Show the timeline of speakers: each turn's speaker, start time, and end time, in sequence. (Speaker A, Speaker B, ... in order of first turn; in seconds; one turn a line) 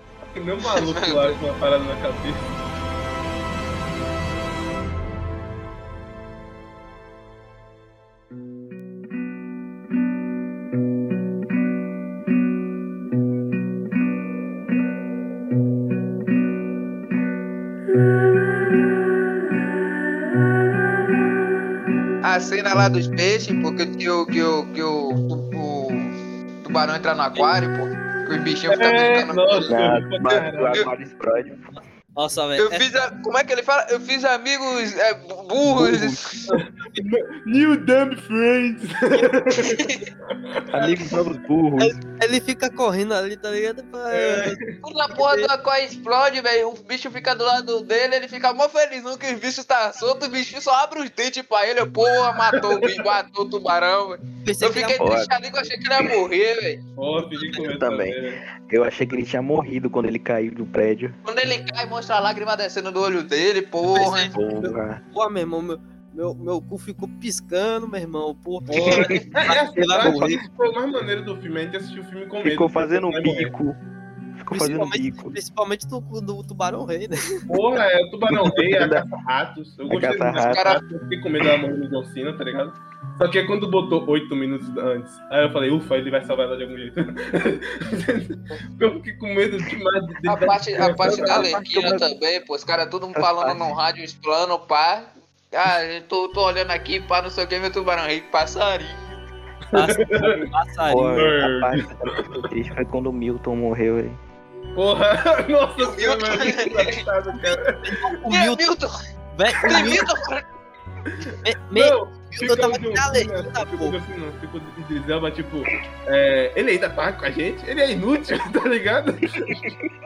Speaker A: 0.3-2.5
Speaker B: 1.0-1.4
Speaker B: 22.2-26.1
Speaker B: 26.6-29.7
Speaker A: 28.7-30.9
Speaker C: 29.7-31.7
Speaker D: 32.2-32.9
Speaker B: 32.6-36.4
Speaker C: 35.7-36.2
Speaker D: 36.5-37.0
Speaker A: 37.0-39.8
Speaker B: 39.6-40.0
Speaker C: 40.7-42.0
Speaker D: 41.8-44.6
Speaker A: 44.1-44.6
Speaker B: 44.8-56.8
Speaker D: 54.4-55.1
Speaker C: 55.0-55.3
Speaker A: 57.0-58.4
Speaker C: 57.5-61.2
Speaker B: 61.2-64.3
Speaker D: 63.9-64.3
Speaker C: 64.3-65.0
Speaker D: 65.1-70.3
Speaker A: 68.7-73.5
Speaker C: 69.0-69.2
Speaker C: 70.0-70.5
Speaker C: 72.4-73.8
Speaker C: 74.4-75.4
Speaker D: 74.5-77.5
Speaker A: 77.5-91.6
Speaker C: 78.3-79.0
Speaker C: 79.9-80.6
Speaker B: 80.4-80.8
Speaker B: 90.3-99.2
Speaker C: 91.2-92.0
Speaker C: 93.2-93.6
Speaker D: 99.7-101.2
Speaker A: 99.8-100.4
Speaker C: 100.2-104.2
Speaker A: 101.0-102.2
Speaker A: 104.8-108.0
Speaker B: 105.8-107.6
Speaker D: 107.9-108.7
Speaker B: 108.3-108.9
Speaker D: 109.3-110.0
Speaker B: 109.7-110.4
Speaker A: 109.7-110.0
Speaker D: 111.4-114.0
Speaker A: 111.7-119.7
Speaker C: 119.4-119.9